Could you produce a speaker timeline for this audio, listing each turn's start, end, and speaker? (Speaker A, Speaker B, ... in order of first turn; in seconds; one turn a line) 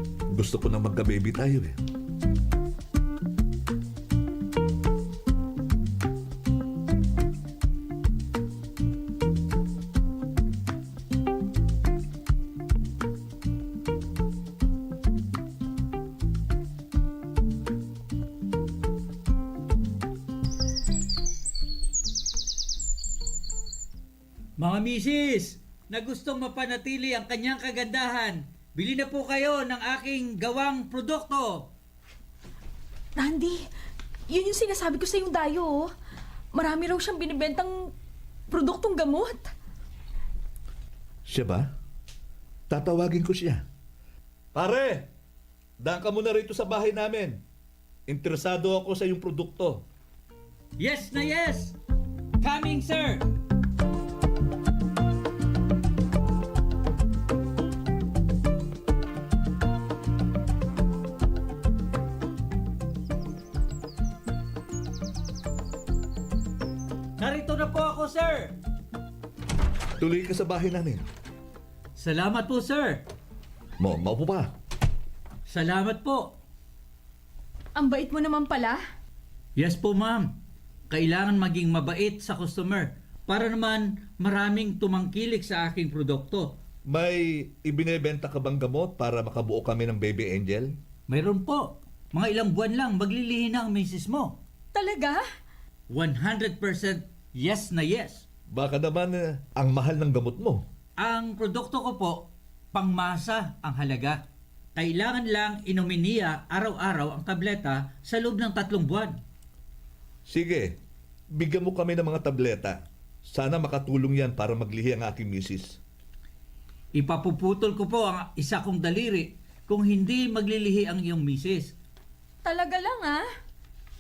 Speaker A: 0.3-1.8
Speaker B: 24.6-31.7
Speaker C: 33.2-33.6
Speaker C: 34.3-35.9
Speaker C: 36.5-37.9
Speaker C: 38.5-39.5
Speaker A: 41.3-41.7
Speaker A: 42.7-43.6
Speaker A: 44.5-45.1
Speaker A: 45.8-47.4
Speaker A: 48.1-49.8
Speaker B: 50.8-51.8
Speaker B: 52.4-53.3
Speaker B: 67.2-68.6
Speaker A: 70.0-71.0
Speaker B: 72.0-73.0
Speaker A: 73.8-74.5
Speaker B: 75.5-76.3
Speaker C: 77.8-78.8
Speaker B: 79.6-80.3
Speaker B: 80.9-86.5
Speaker A: 86.9-90.7
Speaker B: 91.1-94.4
Speaker C: 94.7-95.3
Speaker B: 95.9-98.2
Speaker A: 98.5-100.6
Speaker B: 101.0-104.2
Speaker B: 104.8-109.2
Speaker A: 110.3-110.8
Speaker A: 111.3-115.8
Speaker B: 117.0-121.8
Speaker C: 122.4-123.3